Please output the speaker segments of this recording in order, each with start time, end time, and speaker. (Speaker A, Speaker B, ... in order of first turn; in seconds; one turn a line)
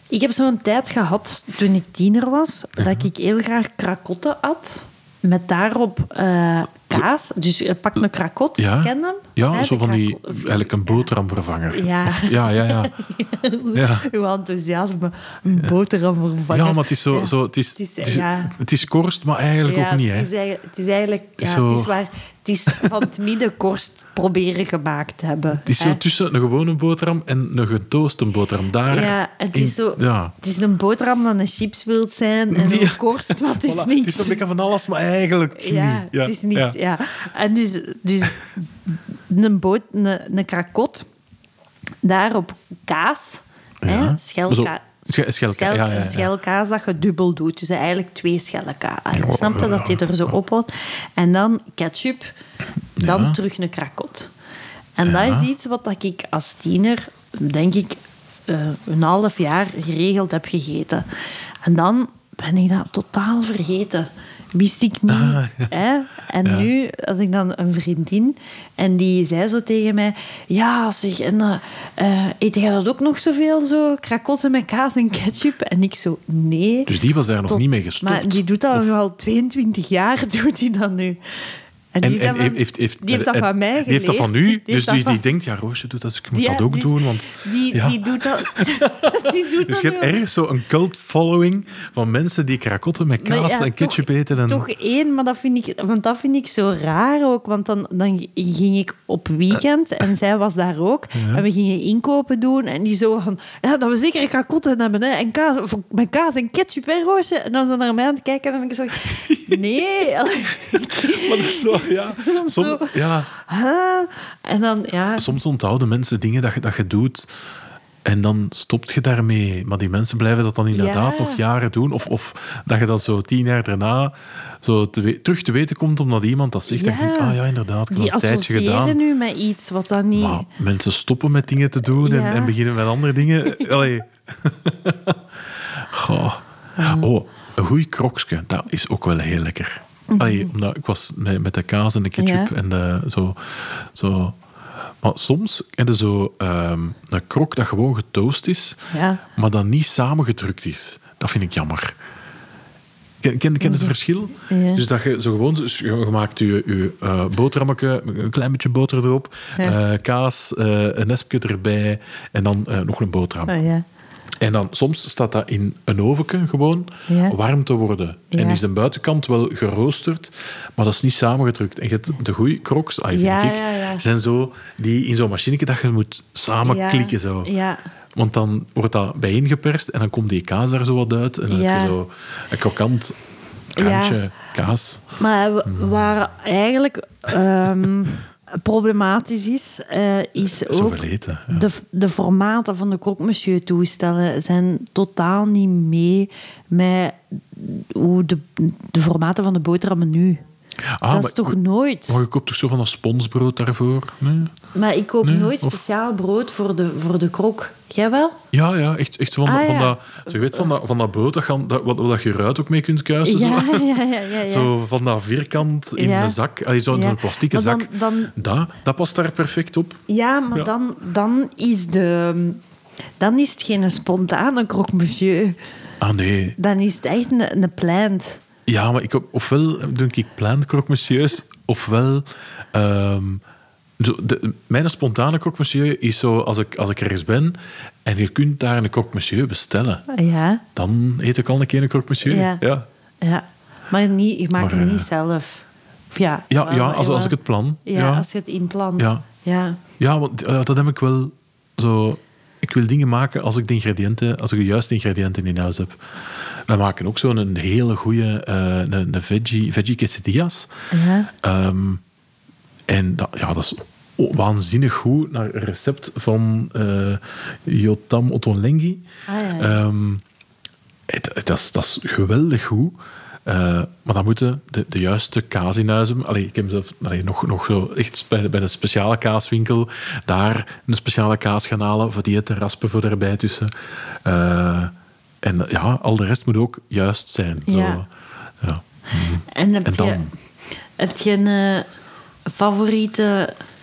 Speaker A: 0.1-18.6
Speaker B: 2.8-3.1
Speaker B: 8.6-12.9
Speaker B: 13.7-14.1
Speaker B: 16.5-20.3
Speaker A: 19.6-26.0
Speaker B: 21.4-22.0
Speaker B: 25.6-30.4
Speaker A: 28.9-34.4
Speaker B: 32.5-36.8
Speaker A: 35.6-41.0
Speaker A: 42.0-52.2
Speaker B: 43.8-46.3
Speaker B: 49.1-50.3
Speaker B: 53.0-53.4
Speaker A: 53.0-54.3
Speaker A: 55.0-61.1
Speaker B: 55.0-55.5
Speaker A: 61.6-76.9
Speaker B: 65.1-65.7
Speaker B: 66.4-66.7
Speaker B: 76.9-78.9
Speaker A: 77.5-81.2
Speaker A: 81.9-85.2
Speaker B: 82.0-94.7
Speaker A: 86.3-90.2
Speaker A: 93.2-115.3
Speaker B: 101.1-101.5
Speaker B: 109.1-109.6
Speaker B: 110.7-113.3
Speaker B: 115.2-117.3
Speaker B: 118.0-129.0
Speaker A: 120.7-121.4
Speaker A: 126.7-127.4
Speaker A: 127.9-130.5
Speaker B: 130.1-135.2
Speaker A: 131.9-132.6
Speaker B: 135.7-144.4
Speaker A: 136.8-137.1
Speaker A: 140.1-140.5
Speaker A: 142.2-142.5
Speaker B: 145.0-148.8
Speaker A: 148.9-149.2
Speaker B: 149.3-151.9
Speaker B: 153.2-163.6
Speaker A: 153.6-153.9
Speaker A: 154.5-154.8
Speaker A: 163.5-163.8
Speaker B: 164.4-177.5
Speaker A: 167.1-167.4
Speaker A: 168.3-168.6
Speaker A: 173.1-174.0
Speaker A: 176.6-177.8
Speaker B: 178.2-183.2
Speaker A: 181.5-182.0
Speaker A: 183.8-184.2
Speaker B: 183.8-185.1
Speaker A: 185.2-200.4
Speaker B: 185.7-185.9
Speaker B: 190.6-191.7
Speaker B: 201.0-204.5
Speaker A: 201.1-202.2
Speaker A: 204.7-208.4
Speaker B: 205.2-205.8
Speaker B: 208.5-220.0
Speaker A: 209.4-210.7
Speaker A: 213.2-214.7
Speaker A: 216.0-216.4
Speaker A: 216.9-218.3
Speaker A: 220.1-222.6
Speaker A: 223.2-225.6
Speaker B: 226.0-226.6
Speaker A: 226.6-228.4
Speaker B: 228.7-233.4
Speaker B: 234.0-240.1
Speaker A: 240.1-240.6
Speaker B: 240.8-242.9
Speaker A: 242.2-242.7
Speaker A: 243.2-249.8
Speaker B: 244.6-245.1
Speaker B: 246.5-248.3
Speaker B: 249.0-249.2
Speaker B: 250.0-256.0
Speaker B: 256.7-260.7
Speaker A: 260.9-261.3
Speaker B: 261.4-262.0
Speaker B: 262.9-269.1
Speaker A: 269.3-269.8
Speaker B: 269.6-270.2
Speaker B: 271.1-288.1
Speaker A: 287.6-288.0
Speaker B: 288.6-290.3
Speaker A: 289.5-290.3
Speaker A: 291.0-291.9
Speaker A: 292.5-293.6